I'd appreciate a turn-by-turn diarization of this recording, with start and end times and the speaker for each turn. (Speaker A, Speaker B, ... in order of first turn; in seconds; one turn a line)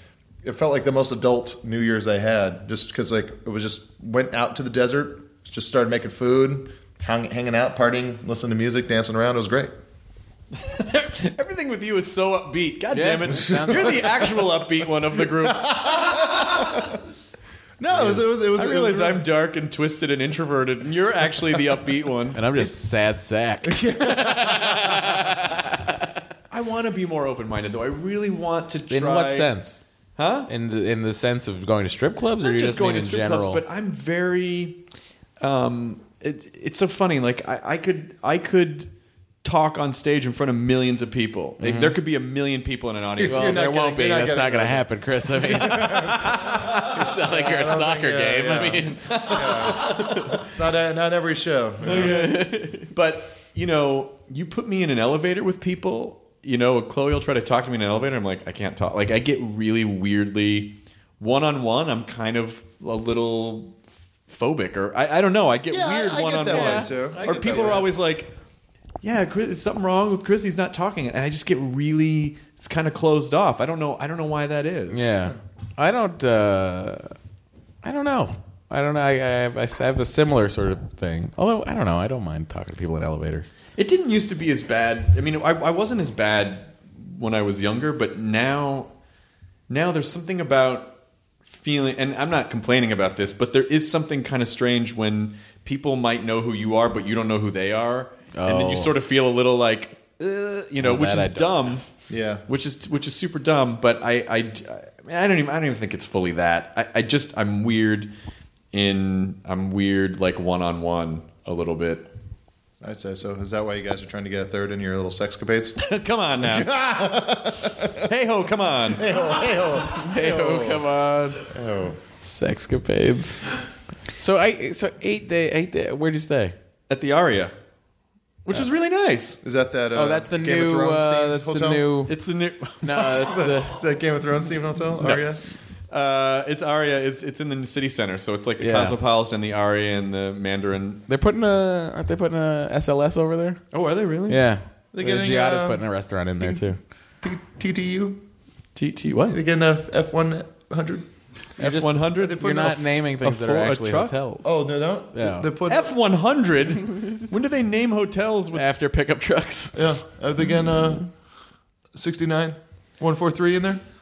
Speaker A: 0.4-9.7
Speaker B: 10.6-16.3
Speaker C: 12.9-14.1
Speaker A: 13.5-14.3
Speaker A: 15.4-17.0
Speaker A: 17.8-19.2
Speaker B: 17.9-22.7
Speaker C: 22.3-26.1
Speaker A: 23.7-25.1
Speaker B: 26.5-29.5
Speaker C: 28.9-29.8
Speaker B: 30.1-30.5
Speaker C: 30.5-33.6
Speaker B: 32.4-34.8
Speaker B: 35.4-38.9
Speaker B: 39.4-43.6
Speaker C: 41.6-42.0
Speaker A: 43.2-52.2
Speaker C: 43.2-49.2
Speaker B: 45.7-47.0
Speaker B: 49.0-50.4
Speaker C: 49.8-50.3
Speaker B: 51.8-63.8
Speaker C: 51.9-52.9
Speaker B: 64.3-68.3
Speaker A: 65.7-67.9
Speaker C: 66.5-67.9
Speaker B: 69.0-75.1
Speaker C: 74.9-77.1
Speaker C: 77.8-83.5
Speaker B: 83.8-88.9
Speaker B: 89.7-91.0
Speaker B: 91.5-101.8
Speaker C: 98.3-98.9
Speaker C: 100.8-101.7
Speaker A: 102.1-102.4
Speaker B: 102.5-108.1
Speaker B: 108.7-112.1
Speaker A: 112.8-115.8
Speaker B: 115.8-116.8
Speaker A: 116.4-118.0
Speaker B: 118.0-119.1
Speaker A: 118.9-120.8
Speaker C: 119.9-121.4
Speaker A: 121.5-122.0
Speaker C: 122.2-123.5
Speaker C: 124.2-126.5
Speaker B: 126.9-127.5
Speaker B: 128.4-129.4
Speaker A: 129.4-131.8
Speaker C: 129.9-132.1
Speaker B: 132.1-133.5
Speaker C: 132.8-133.8
Speaker A: 133.2-135.4
Speaker B: 135.0-135.3
Speaker B: 135.9-141.0
Speaker C: 138.6-139.0
Speaker C: 141.1-143.6
Speaker B: 143.7-144.4
Speaker C: 144.3-146.8
Speaker A: 144.9-145.8
Speaker A: 146.4-146.7
Speaker A: 147.2-148.2
Speaker B: 148.7-149.4
Speaker A: 149.3-151.0
Speaker B: 151.6-154.1
Speaker C: 151.6-154.6
Speaker A: 154.4-155.9
Speaker C: 155.1-155.5
Speaker B: 155.7-158.6
Speaker C: 158.5-160.0
Speaker A: 159.7-161.1
Speaker A: 161.9-163.8